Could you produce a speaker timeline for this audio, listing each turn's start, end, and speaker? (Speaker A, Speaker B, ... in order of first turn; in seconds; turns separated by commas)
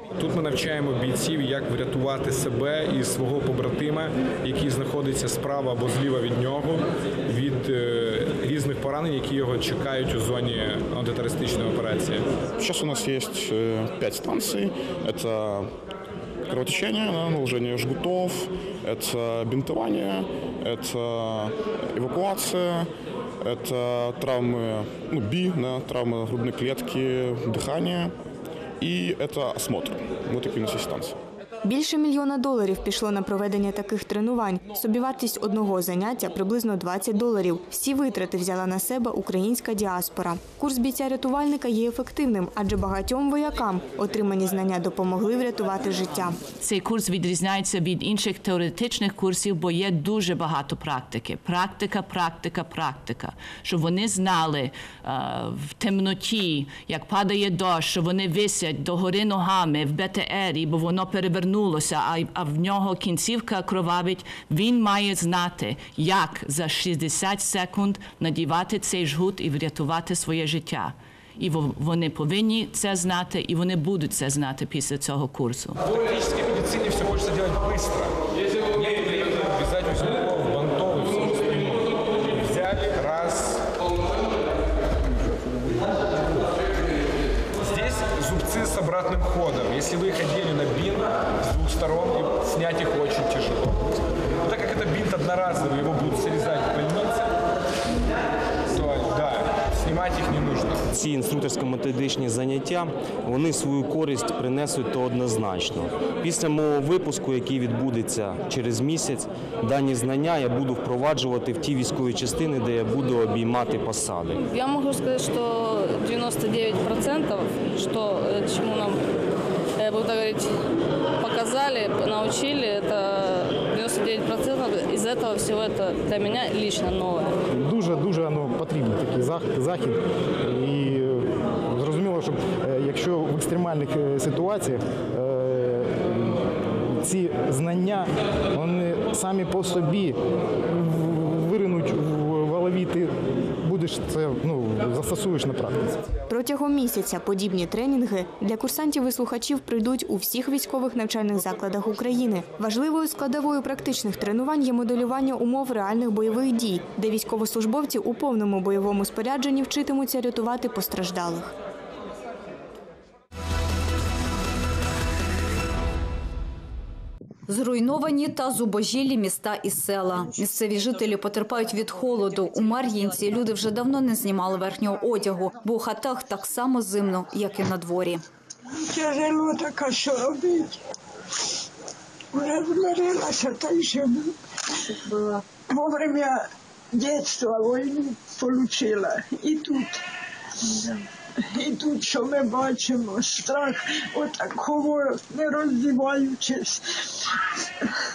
Speaker A: 0.2-12.2, Speaker B: 12.6-15.7, Speaker B: 16.5-22.9, Speaker B: 23.4-28.1, Speaker B: 28.8-31.1, Speaker C: 31.6-46.4, Speaker D: 46.6-75.8, Speaker A: 75.9-78.2, Speaker A: 78.7-83.7, Speaker A: 87.7-97.3, Speaker A: 98.7-100.8, Speaker E: 100.9-114.3, Speaker F: 114.3-119.0, Speaker F: 119.8-120.5, Speaker F: 121.2-127.4, Speaker G: 127.5-140.2, Speaker G: 140.7-145.9, Speaker C: 146.3-161.5, Speaker H: 167.5-178.2, Speaker I: 178.8-180.8, Speaker I: 182.3-184.3, Speaker I: 185.1-189.9, Speaker I: 190.9-196.8